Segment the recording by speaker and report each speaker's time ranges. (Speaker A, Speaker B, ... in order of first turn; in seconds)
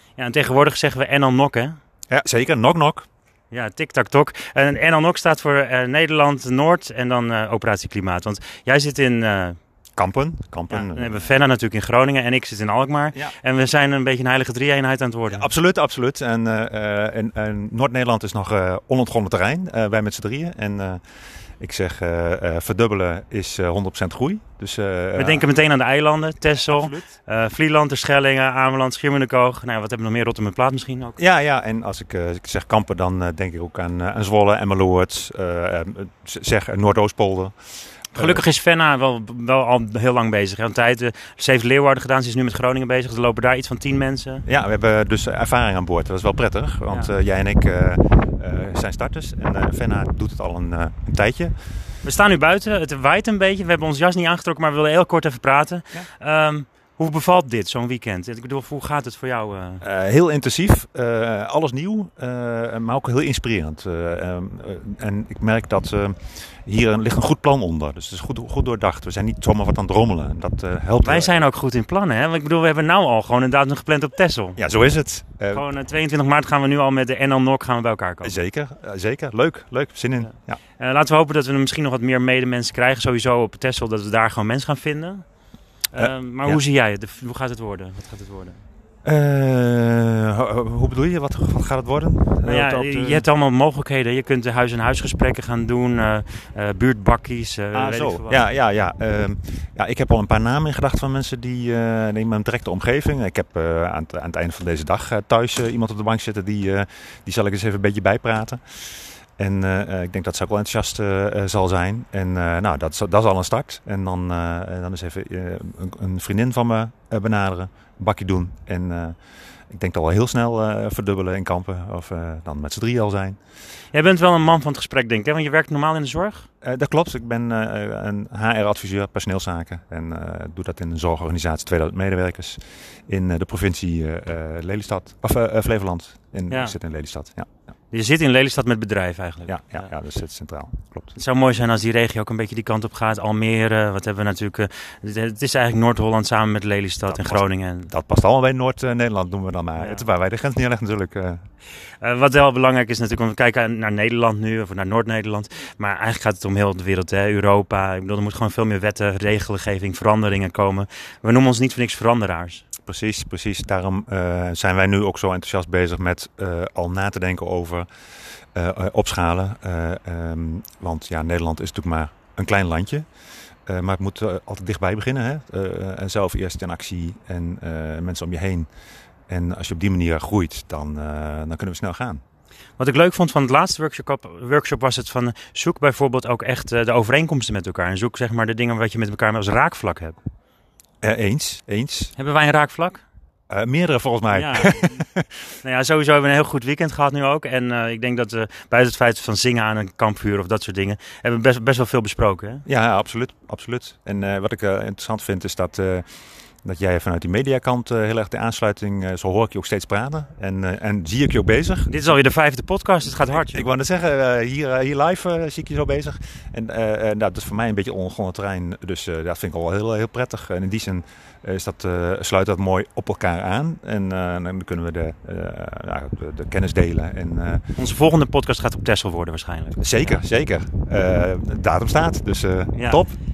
Speaker A: 0.2-1.8, 3.5-9.6, 10.7-15.4, 25.1-31.2, 38.1-44.4, 52.0-59.8, 71.0-74.6, 75.5-78.3, 80.8-85.2, 85.9-88.6, 92.4-98.4, 123.9-126.5, 136.5-136.7, 137.9-139.6, 141.1-147.9, 149.8-150.0, 152.0-162.6, 182.8-190.2, 192.2-193.0, 194.3-195.0, 195.6-202.6, 211.9-213.7, 227.8-230.2, 232.7-233.0
Speaker B: 2.1-3.1, 10.0-11.3, 15.3-21.0, 21.6-25.4, 26.7-27.0, 31.2-37.5, 38.1-38.4, 44.5-51.5, 59.8-71.4, 74.6-75.6, 78.2-80.6, 86.0-86.6, 89.0-93.2, 97.7-108.6, 109.4-119.2, 119.7-123.4, 126.6-137.5, 139.5-141.1, 147.1-151.4, 162.8-167.9, 168.5-173.1, 173.7-178.7, 179.3-182.2, 191.0-192.1, 193.5-195.2, 202.7-206.0, 206.6-211.9, 213.3-227.6, 229.8-233.2